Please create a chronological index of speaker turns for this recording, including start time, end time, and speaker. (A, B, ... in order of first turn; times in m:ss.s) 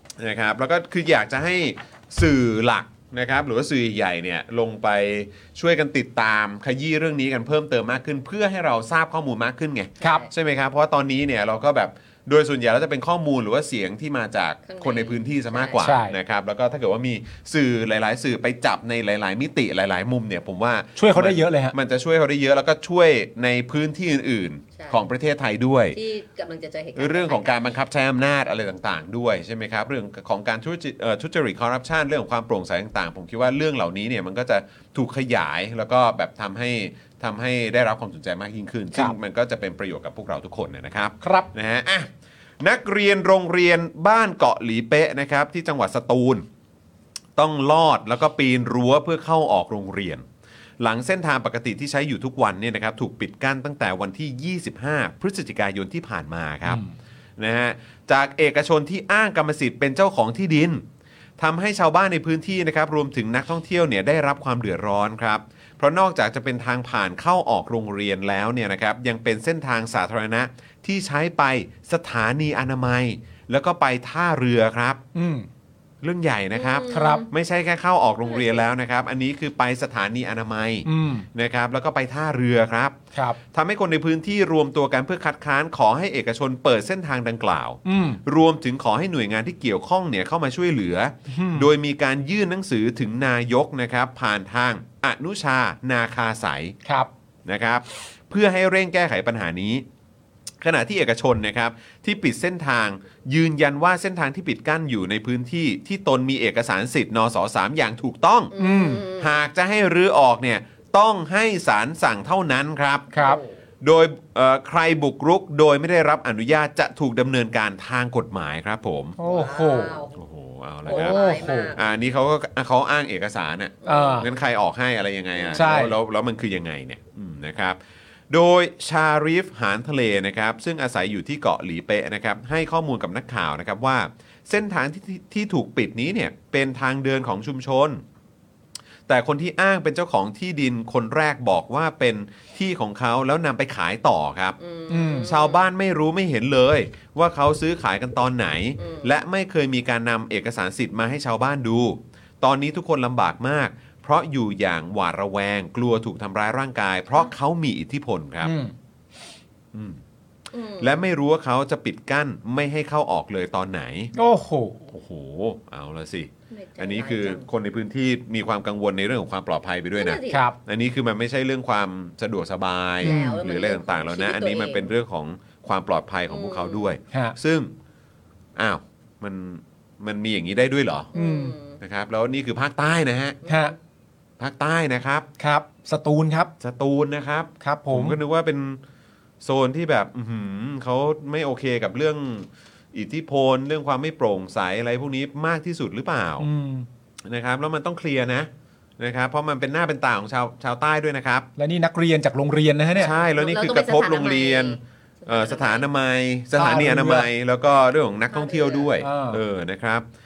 0:00.2-0:26.0 A
0:10.0-0:10.3 B
0:10.0-0:10.3 C
0:14.7-0:15.8 C
0:15.8-0:16.2 B
0:21.0-0:21.8 B
0:25.9-0:27.6 C
0:27.0-0:46.5 A
0:41.2-0:41.5 B
0:47.4-0:50.2 A
0:50.8-0:56.8 A
0:56.7-0:56.9 B
0:57.4-1:00.8 A
1:01.4-1:15.0 A
1:15.1-1:15.5 B
1:16.0-1:23.0 A
1:16.5-1:17.3 C
1:16.9-1:17.2 B
1:18.3-1:18.6 C
1:20.8-1:21.3 B
1:23.1-1:23.4 B
1:23.5-1:36.8 A
1:27.8-1:28.2 B
1:31.3-1:31.7 B
1:37.5-1:39.8 A
1:40.6-1:48.5 A
1:48.5-1:49.3 C
1:48.6-1:49.0 B
1:49.1-1:53.1 A
1:53.1-1:53.5 C
1:53.1-1:53.4 B
1:53.8-1:59.2 A
1:59.2-2:00.0 B
1:59.2-2:00.2 C
2:00.2-2:07.8 A
2:00.9-2:01.8 B
2:00.9-2:01.8 C
2:03.8-2:04.2 C
2:03.9-2:04.3 B
2:05.4-2:05.8 C
2:05.5-2:06.0 B
2:08.3-2:18.0 A
2:19.1-2:24.6 A
2:24.6-2:25.7 C
2:24.9-2:25.3 B
2:25.2-2:38.5 A
2:28.8-2:29.1 C
2:38.4-2:38.7 B
2:39.7-2:40.0 A
2:40.5-2:41.0 C
2:40.8-2:44.1 A
2:44.1-2:44.8 B
2:44.9-2:57.7 A
2:46.5-2:47.4 C
2:50.0-2:50.4 C
2:50.3-2:50.6 B
2:53.0-2:54.9 C
2:53.0-2:53.4 B
2:56.3-2:57.0 C
2:58.6-3:01.1 A
3:01.1-3:01.6 B
3:01.1-3:01.8 C
3:01.8-3:03.4 A
3:03.4-3:03.7 C
3:03.5-3:03.7 B
3:04.4-3:05.3 A
3:05.4-3:06.5 B
3:06.6-3:08.8 A
3:07.6-3:08.2 B
3:09.4-3:16.5 A
3:16.4-3:16.9 B
3:17.2-3:21.5 A
3:21.6-3:23.1 B
3:23.0-3:30.0 A
3:23.0-3:25.8 C
3:26.6-3:27.3 B
3:28.3-3:29.0 C
3:29.0-3:29.4 B